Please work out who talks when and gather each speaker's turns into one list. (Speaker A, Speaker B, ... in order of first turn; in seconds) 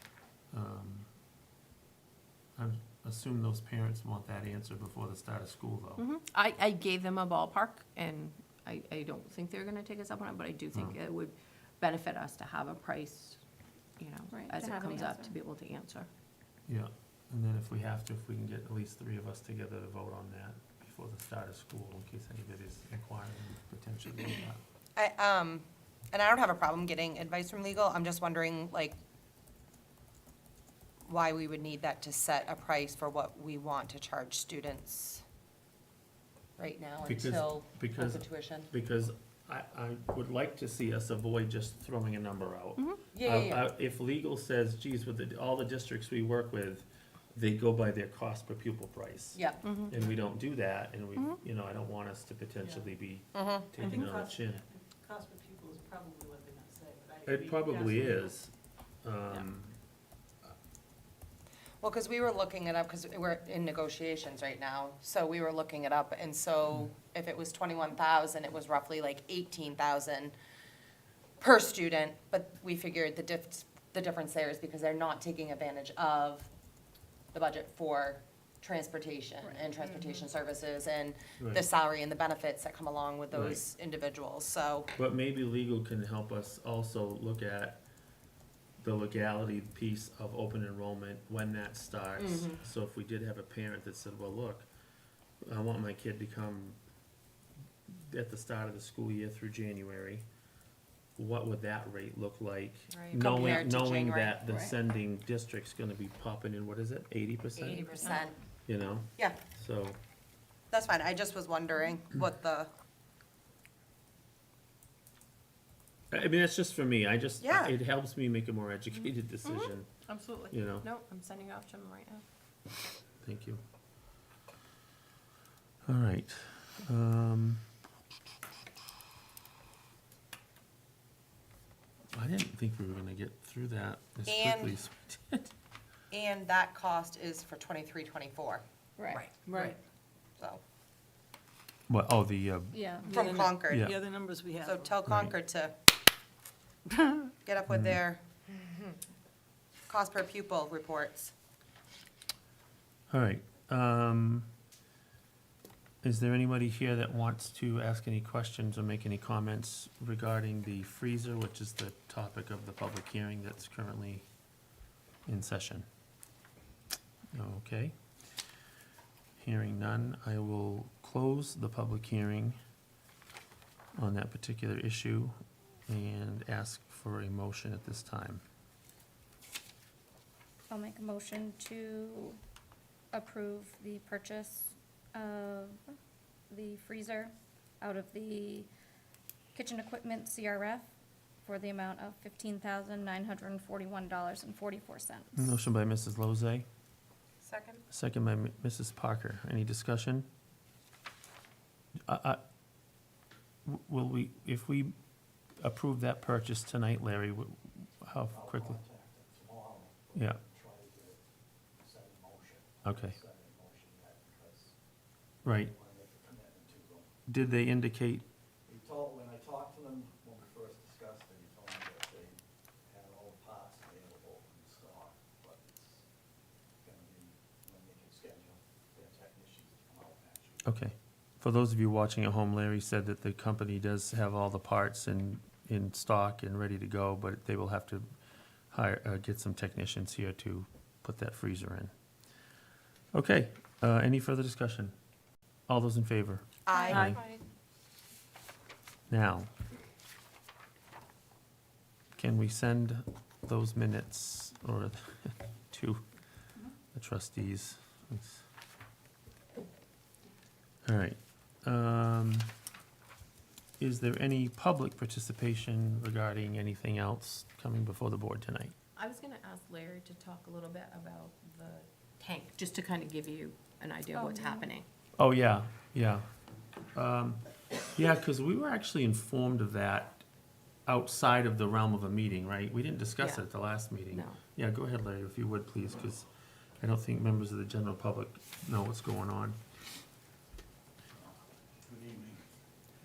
Speaker A: 0.5-1.1, 2.6-6.1, 16.7-24.6, 37.1-54.6, 57.3-58.5, 59.0-59.8, 81.4-81.7, 83.3-83.6, 85.0-87.8, 88.8-94.7, 95.4-96.8, 97.9-100.3, 101.2-107.9, 108.7-110.0, 116.1-119.9, 120.5-120.9, 123.2-123.6, 125.9-127.6, 132.1-135.5, 141.9-142.8, 143.7-143.9, 145.1-145.3, 147.7-148.0, 153.1-154.5, 156.0-164.2, 165.3-165.9, 167.3-167.9, 169.4-172.6, 174.0-175.3, 175.9-178.4, 195.3-196.7, 197.9-200.3, 202.1-202.4, 203.7-204.9, 205.6-208.8, 212.8-213.2, 215.4-215.7, 217.3-218.2, 230.6-238.1, 238.7-241.9, 243.1-244.9, 245.7-247.1, 249.1-249.5, 252.2-256.0, 256.9-258.4, 260.9-262.5, 263.8-268.8, 275.2-276.3, 276.9-277.4, 277.9-280.2, 280.9-286.3, 286.8-289.6
Speaker B: 6.0-13.4, 14.0-16.1, 49.6-49.9, 119.4-122.2, 269.0-274.9, 284.1-284.4
Speaker C: 14.3-15.4, 104.5-104.7, 139.0-139.2, 142.7-143.2, 180.7-182.4, 183.1-185.9, 186.5-188.7, 189.6-190.9, 191.5-195.6, 246.9-247.2, 274.1-274.7
Speaker D: 25.0-29.0, 31.1-35.2, 36.6-38.7, 43.1-43.7, 49.3-49.6, 53.3-53.8, 61.8-70.3, 71.4-76.5, 77.3-84.9, 92.2-92.6, 102.9-104.4, 107.6-108.4, 110.7-112.7, 117.4-117.7, 134.3-134.8, 136.1-139.7, 143.1-143.9, 144.6-145.7, 147.4-148.7, 149.9-151.3, 197.4-197.8, 246.7-247.4
Speaker E: 52.6-52.9, 53.8-58.3, 143.3-143.7
Speaker F: 208.3-211.2, 211.8-214.8, 215.5-217.1, 218.7-226.1, 226.8-230.8, 291.9-292.4